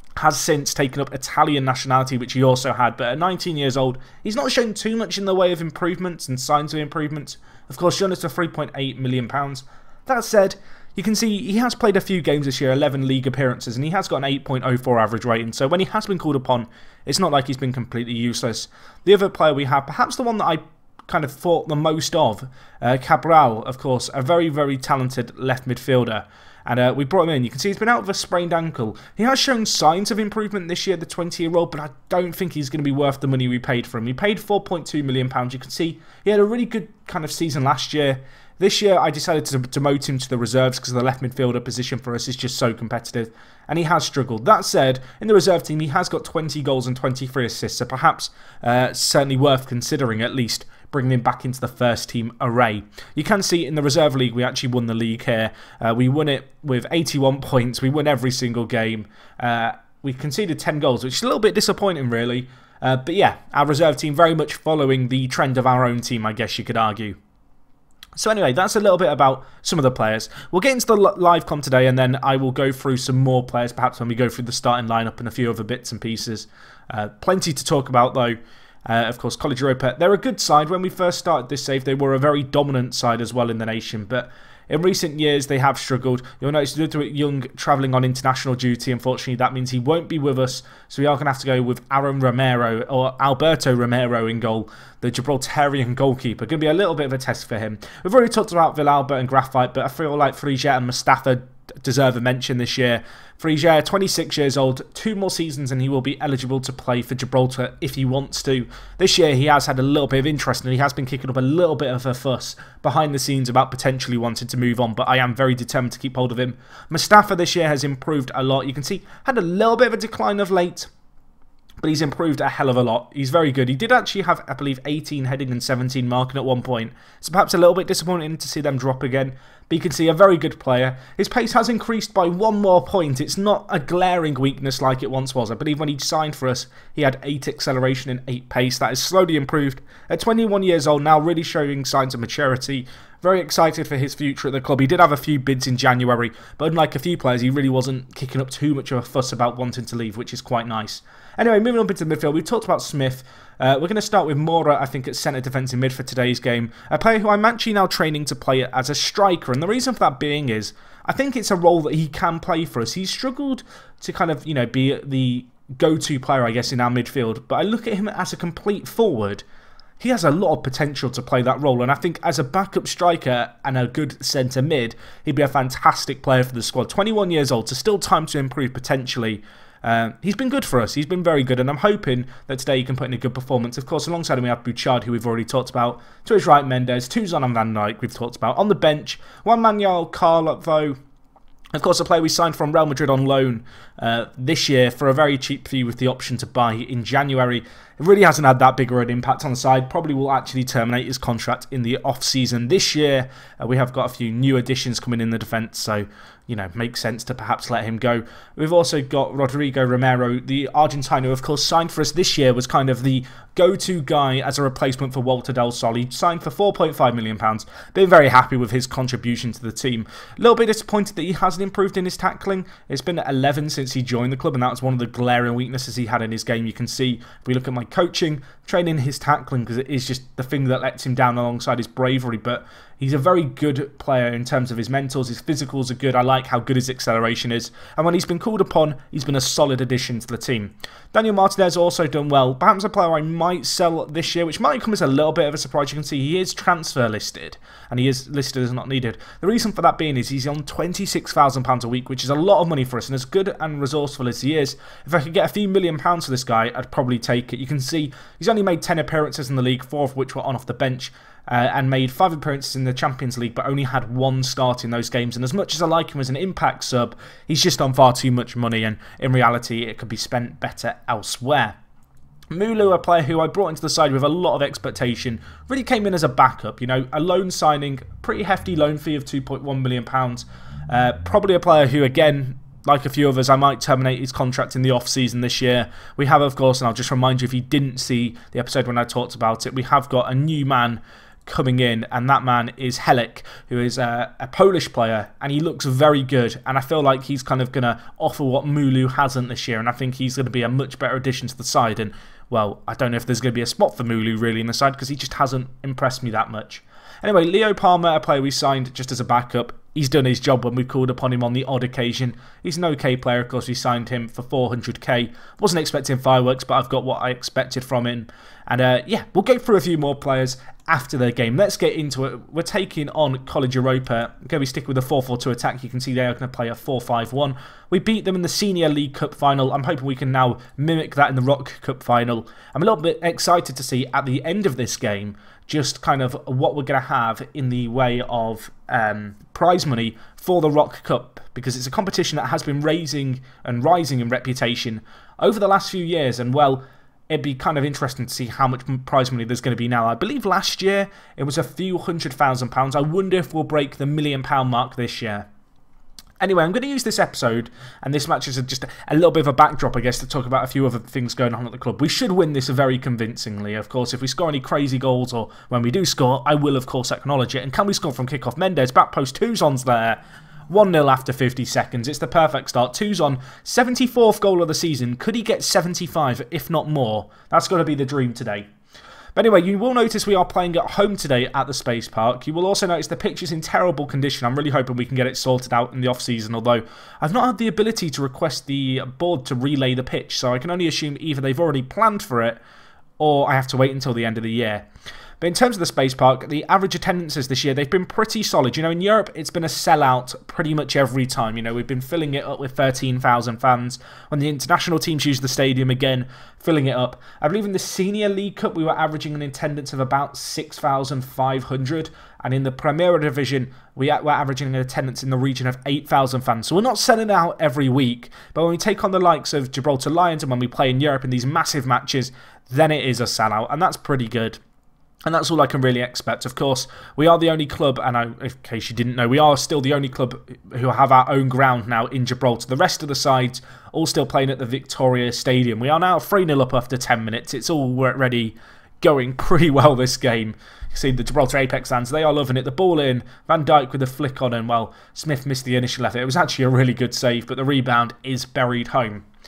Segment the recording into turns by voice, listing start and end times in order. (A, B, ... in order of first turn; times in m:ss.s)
0:00.2-1:07.2 A
1:08.2-2:00.9 A
2:01.8-2:49.4 A
2:50.0-3:11.0 A
3:11.7-4:31.8 A
4:32.5-5:55.5 A
5:56.4-6:18.7 A
6:19.3-6:32.6 A
6:33.2-6:34.9 A
6:35.4-7:04.6 A
7:05.3-7:29.3 A